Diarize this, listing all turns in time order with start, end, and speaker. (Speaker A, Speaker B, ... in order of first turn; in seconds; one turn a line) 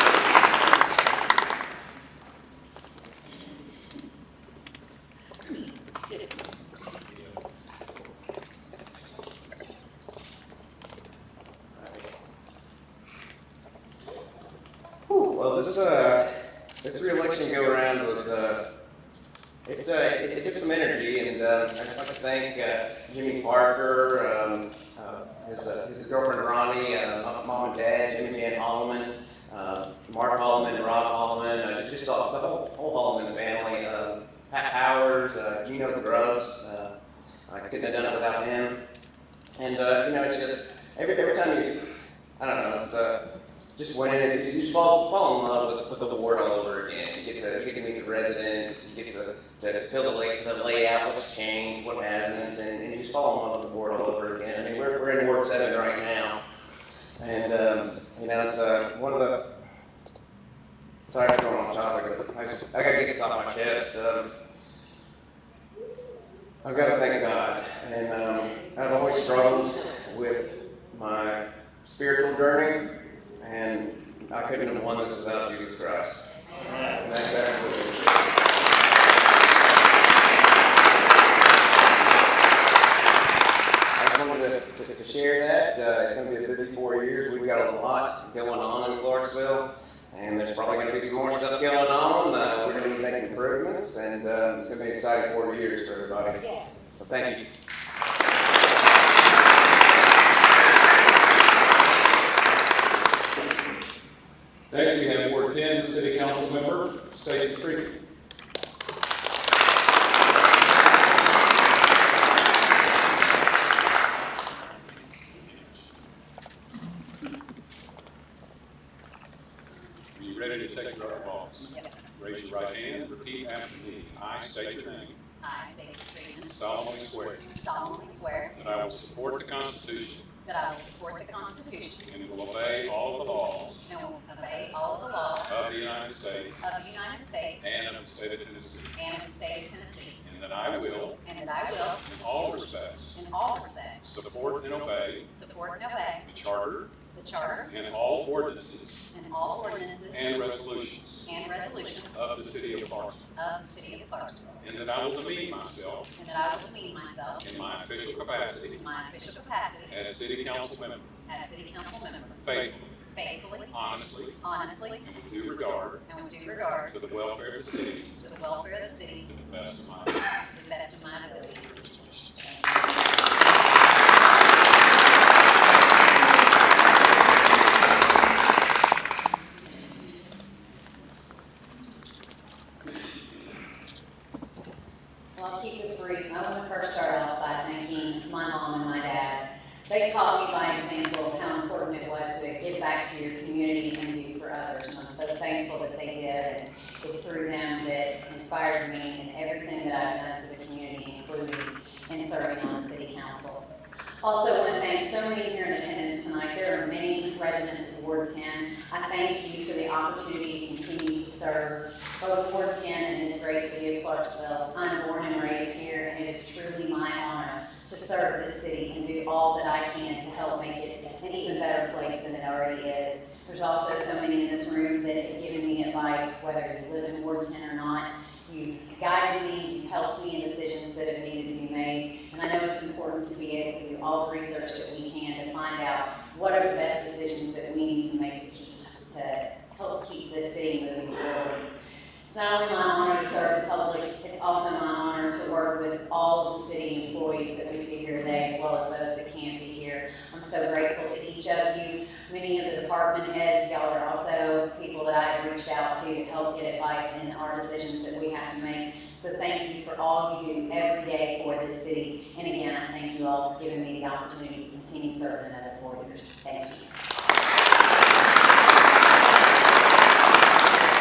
Speaker A: 11.8-12.1
Speaker A: 15.1-18.7
Speaker A: 19.6-37.0
Speaker A: 37.5-38.8
Speaker A: 39.6-41.9
Speaker A: 42.4-43.2
Speaker A: 43.8-56.4
Speaker A: 57.2-59.5
Speaker A: 61.1-64.3
Speaker A: 66.6-76.3
Speaker A: 76.9-78.1
Speaker A: 84.0-96.4
Speaker A: 97.0-97.5
Speaker B: 104.7-108.0
Speaker B: 114.9-116.0
Speaker B: 120.1-125.2
Speaker C: 121.7-122.0
Speaker C: 125.4-126.5
Speaker B: 126.5-127.5
Speaker C: 127.5-128.5
Speaker B: 128.5-130.3
Speaker C: 130.4-132.1
Speaker B: 132.0-133.9
Speaker C: 133.9-135.5
Speaker B: 135.4-136.6
Speaker C: 136.6-137.7
Speaker B: 137.6-138.9
Speaker C: 139.0-140.2
Speaker B: 140.2-141.2
Speaker C: 141.2-142.0
Speaker B: 142.0-143.2
Speaker C: 143.2-144.0
Speaker B: 144.0-145.3
Speaker C: 145.3-146.2
Speaker B: 146.2-146.9
Speaker C: 147.1-147.7
Speaker B: 147.7-149.1
Speaker C: 149.1-150.2
Speaker B: 150.1-151.3
Speaker C: 151.3-152.2
Speaker B: 152.1-153.2
Speaker C: 153.3-154.6
Speaker B: 154.6-156.1
Speaker C: 156.2-157.4
Speaker B: 157.4-158.8
Speaker C: 158.8-159.9
Speaker B: 159.9-161.1
Speaker C: 161.3-162.4
Speaker B: 162.4-163.0
Speaker C: 163.1-163.7
Speaker B: 163.7-164.4
Speaker C: 164.4-165.0
Speaker B: 165.0-166.0
Speaker C: 166.1-166.9
Speaker B: 166.9-168.1
Speaker C: 168.2-169.2
Speaker B: 169.2-170.3
Speaker C: 170.5-171.7
Speaker B: 171.6-172.6
Speaker C: 185.4-203.6
Speaker C: 204.2-241.6
Speaker C: 242.3-266.8